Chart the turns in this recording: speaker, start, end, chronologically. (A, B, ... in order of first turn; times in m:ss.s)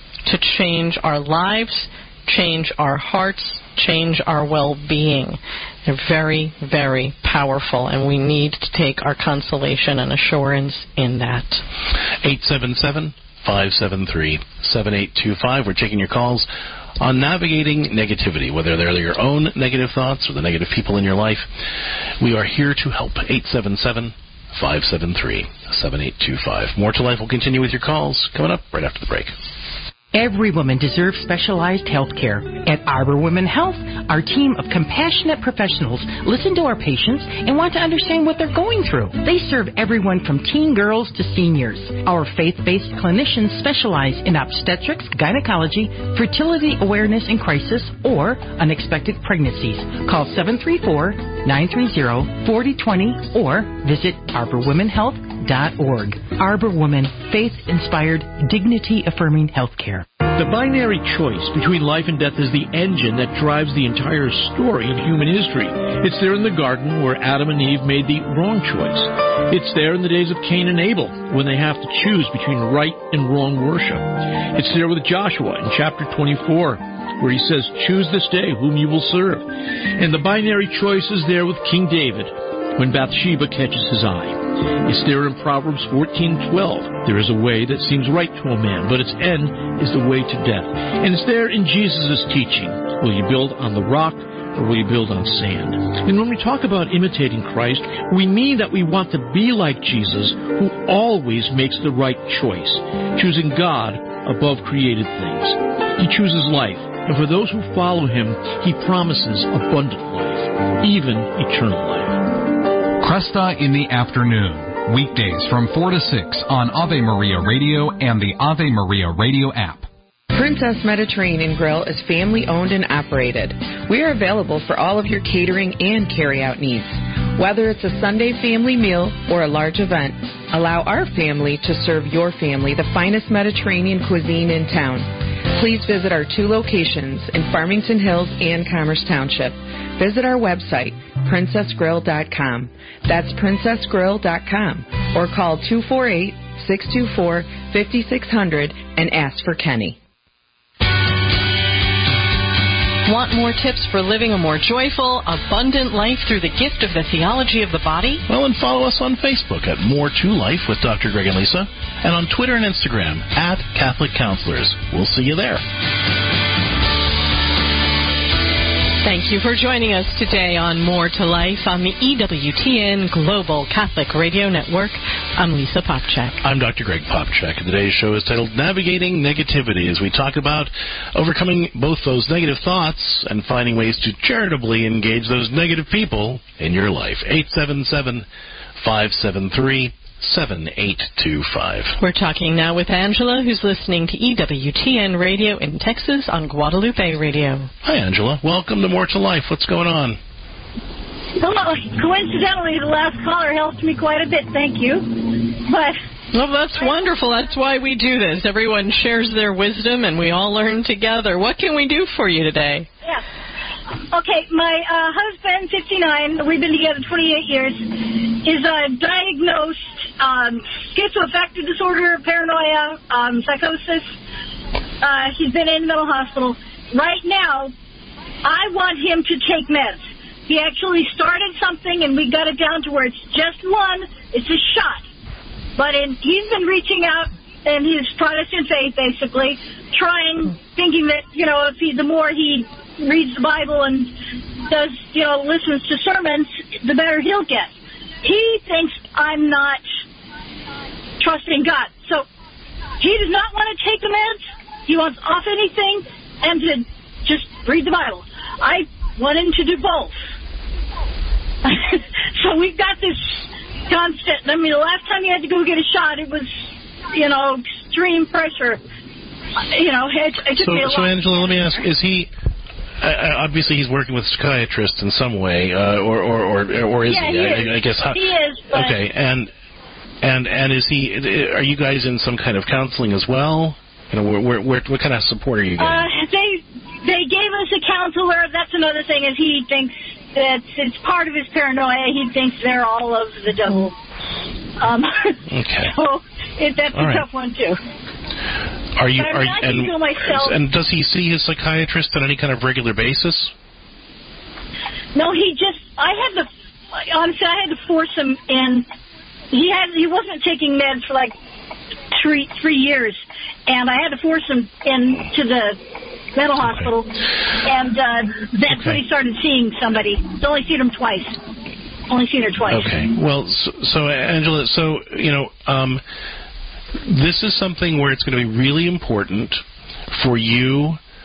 0:00.2-0:11.6 A
0:12.2-0:16.5 B
0:17.0-0:21.5 B
0:22.2-0:29.3 B
0:30.1-1:00.1 C
1:00.2-1:19.5 D
1:20.0-1:52.4 D
1:53.0-1:59.9 E
2:00.3-2:30.0 F
2:33.1-2:38.2 A
2:38.3-2:45.6 B
2:49.0-2:56.4 A
2:56.4-3:12.0 B
3:12.0-3:17.7 A
3:17.8-3:20.2 B
3:21.4-3:26.0 G
3:26.3-3:32.9 A
3:34.1-3:44.1 G
3:45.0-3:47.7 G
3:48.4-3:55.0 G
3:55.8-4:04.1 G
4:04.6-4:09.8 G
4:11.2-4:12.2 G
4:13.0-4:20.2 G
4:21.6-4:28.8 G
4:29.7-4:31.8 G
4:30.6-4:32.3 B
4:33.0-4:38.2 B
4:37.1-4:39.0 G
4:38.7-4:39.5 B
4:40.2-4:46.1 B
4:45.8-4:54.0 G
4:54.8-4:57.8 G
4:55.5-4:56.0 B
4:56.9-4:57.2 B
4:59.0-5:03.5 B
4:59.2-5:00.6 G
5:05.2-5:08.9 G
5:09.5-5:11.4 G
5:12.1-5:15.8 G
5:16.4-5:17.1 G
5:16.6-5:16.9 B
5:17.6-5:21.4 G
5:18.7-5:19.0 B
5:22.1-5:23.1 G
5:22.7-5:26.0 B
5:27.0-5:31.0 B